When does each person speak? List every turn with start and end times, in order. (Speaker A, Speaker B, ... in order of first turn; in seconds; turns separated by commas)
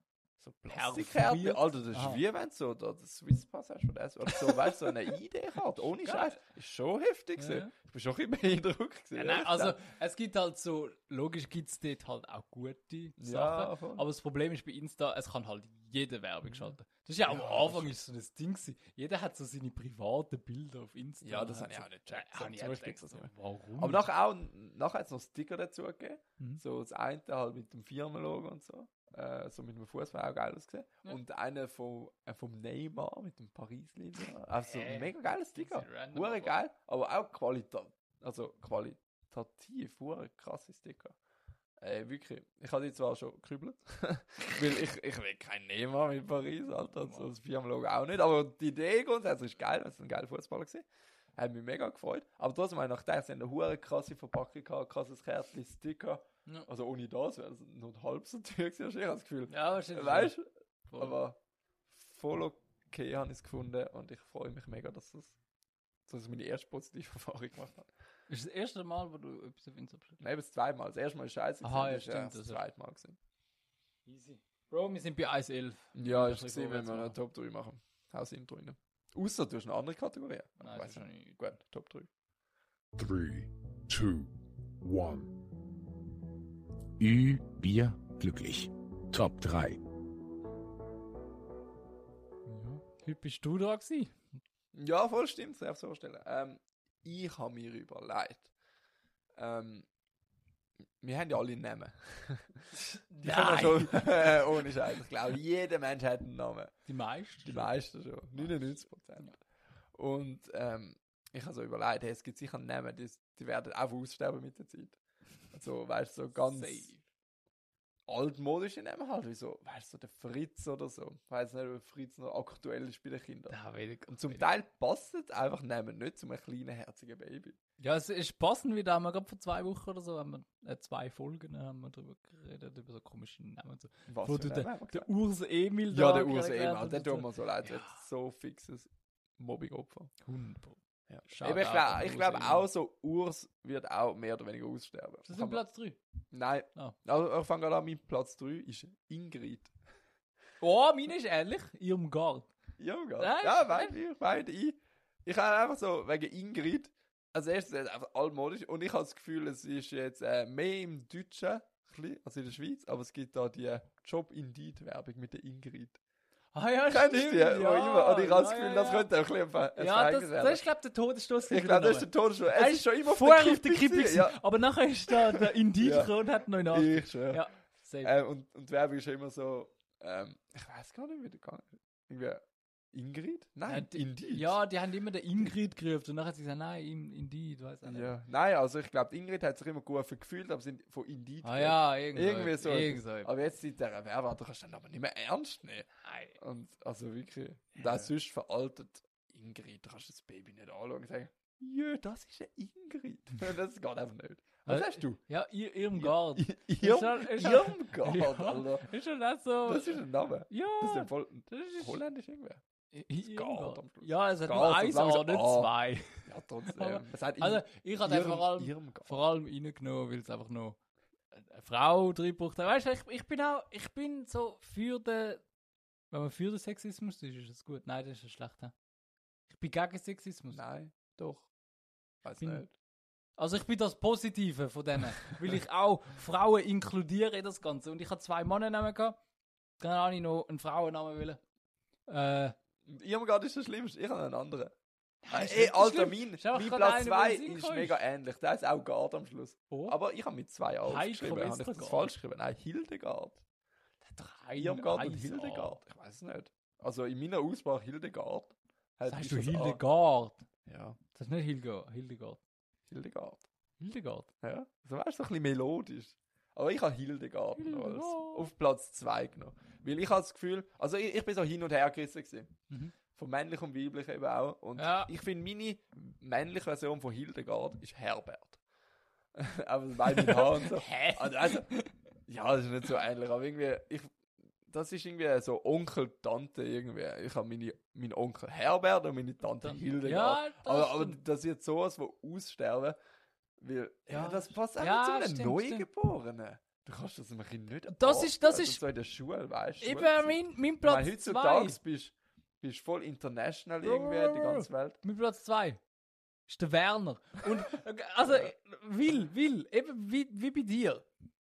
Speaker A: 0.4-9.8, Speaker B: 0.7-2.2, Speaker B: 4.3-4.9, Speaker B: 6.0-6.4, Speaker B: 7.4-7.7, Speaker B: 9.2-24.0, Speaker A: 13.2-14.1, Speaker A: 16.5-16.7, Speaker A: 17.2-17.9, Speaker A: 21.2-41.2, Speaker B: 34.6-36.6, Speaker A: 41.8-50.9, Speaker B: 46.9-47.3, Speaker A: 51.4-61.4, Speaker B: 59.5-60.4, Speaker B: 60.9-61.2, Speaker A: 61.9-65.4, Speaker A: 66.1-67.9, Speaker B: 68.3-70.2, Speaker A: 70.2-73.2, Speaker B: 71.6-72.6, Speaker B: 74.1-77.2, Speaker A: 75.9-82.1, Speaker B: 80.6-81.4, Speaker C: 83.0-84.3, Speaker C: 84.8-85.3, Speaker C: 87.0-89.8, Speaker B: 92.5-94.2, Speaker A: 94.7-98.5, Speaker A: 99.4-99.9, Speaker A: 101.0-102.7, Speaker B: 102.7-104.5, Speaker A: 103.2-106.7, Speaker B: 106.9-107.7, Speaker A: 107.5-109.4, Speaker A: 110.0-115.0, Speaker A: 115.5-116.9, Speaker B: 116.3-117.0, Speaker A: 118.1-123.6, Speaker B: 123.5-124.5, Speaker A: 124.1-127.6, Speaker B: 127.8-138.0, Speaker A: 134.1-135.1, Speaker A: 135.9-140.1, Speaker B: 140.2-142.7, Speaker A: 141.1-145.7, Speaker B: 145.3-146.0, Speaker A: 146.3-149.7, Speaker B: 150.6-152.5, Speaker A: 152.8-166.0, Speaker B: 153.2-153.9, Speaker B: 166.5-169.1, Speaker A: 166.9-170.6, Speaker B: 169.8-178.1, Speaker A: 171.4-174.4, Speaker A: 175.1-176.1, Speaker A: 176.7-177.5, Speaker A: 178.0-184.6, Speaker B: 183.7-188.2, Speaker A: 187.8-205.2, Speaker B: 191.4-193.3, Speaker B: 196.0-196.4, Speaker B: 197.8-198.1, Speaker B: 204.7-212.0, Speaker A: 206.0-208.9, Speaker A: 209.7-212.6, Speaker B: 212.9-220.8, Speaker A: 213.2-215.7, Speaker A: 216.2-219.3, Speaker B: 221.3-225.4, Speaker B: 226.1-228.7, Speaker B: 229.5-230.6, Speaker A: 230.5-231.5, Speaker A: 232.2-232.7, Speaker B: 232.4-232.7, Speaker B: 233.4-239.2, Speaker B: 239.8-241.4, Speaker B: 242.1-242.6, Speaker A: 242.8-244.7, Speaker B: 245.2-248.0, Speaker A: 245.3-253.4, Speaker B: 249.7-250.0, Speaker B: 250.8-252.1, Speaker B: 254.1-255.8, Speaker A: 254.6-259.8, Speaker B: 259.0-260.5, Speaker A: 260.7-261.0, Speaker B: 261.1-262.4, Speaker A: 262.9-263.5, Speaker B: 263.8-264.3, Speaker A: 264.4-272.5, Speaker B: 267.6-268.5, Speaker A: 273.1-278.6, Speaker B: 274.8-275.1, Speaker A: 279.4-281.7, Speaker B: 280.1-281.9, Speaker A: 282.3-293.0, Speaker B: 289.6-291.2, Speaker A: 293.6-305.0, Speaker B: 294.1-295.9, Speaker B: 297.9-298.8, Speaker B: 299.8-301.8, Speaker B: 303.8-305.8, Speaker B: 306.5-311.1